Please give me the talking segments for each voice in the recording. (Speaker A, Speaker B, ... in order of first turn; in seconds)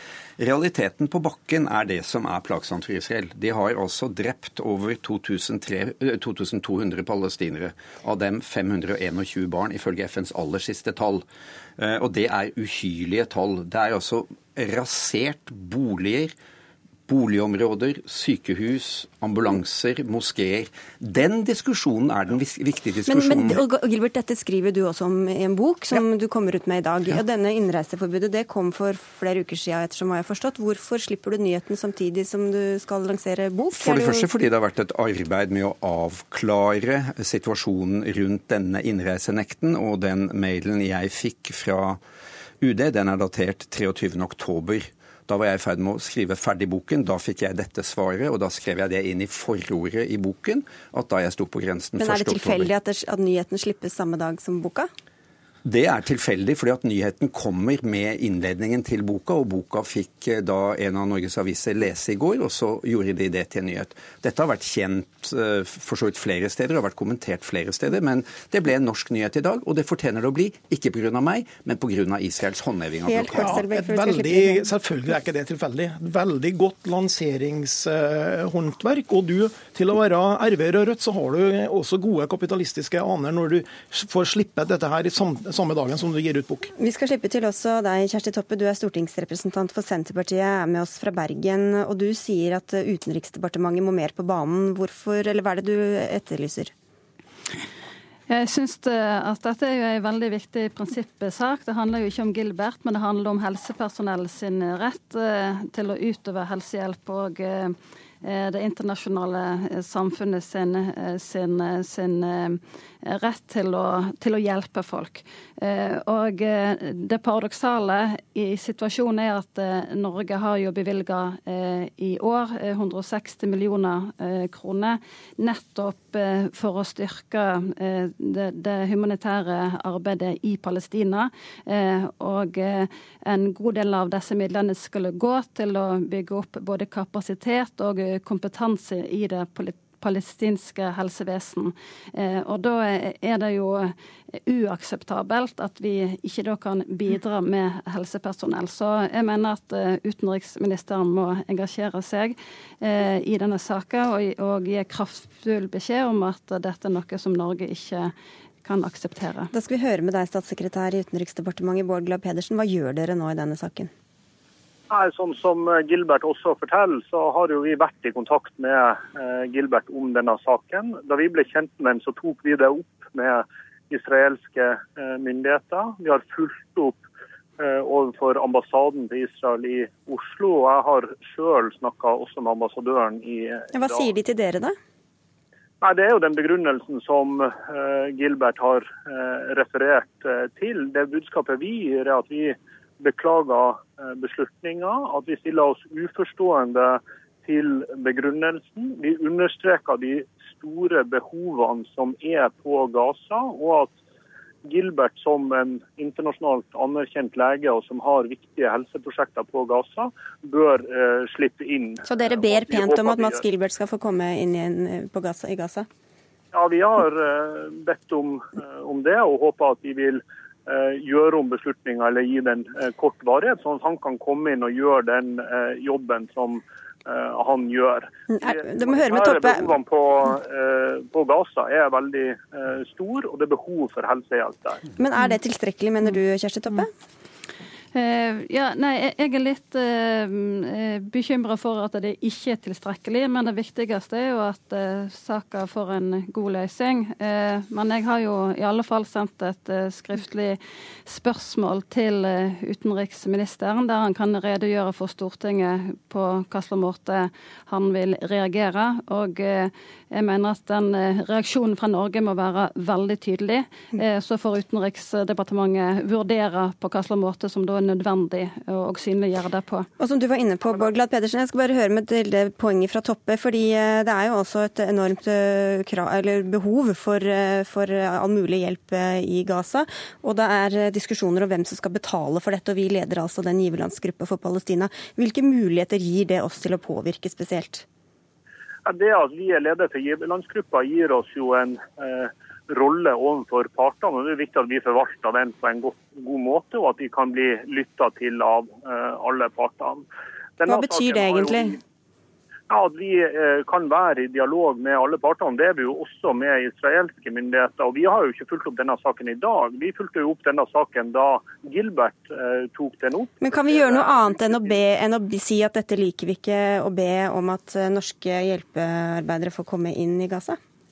Speaker A: 0.4-11.3, 11.8-16.3, 17.1-23.6, 33.8-42.0, 42.6-52.7, 55.6-73.6
Speaker B: 23.1-34.3, 52.0-54.9, 73.1-74.7, 86.8-96.7, 159.5-163.9, 183.7-184.8, 212.1-215.9, 228.3-229.8, 235.0-236.9, 270.0-287.9, 300.7-301.8, 313.4-320.6
Speaker C: 73.4-86.7
Speaker D: 98.3-143.9, 144.5-158.1, 158.6-159.5, 237.9-269.9
Speaker E: 164.9-177.0, 177.6-184.1, 185.8-204.0, 204.7-213.4, 216.5-234.8, 288.9-300.1, 300.6-301.8, 302.7-314.8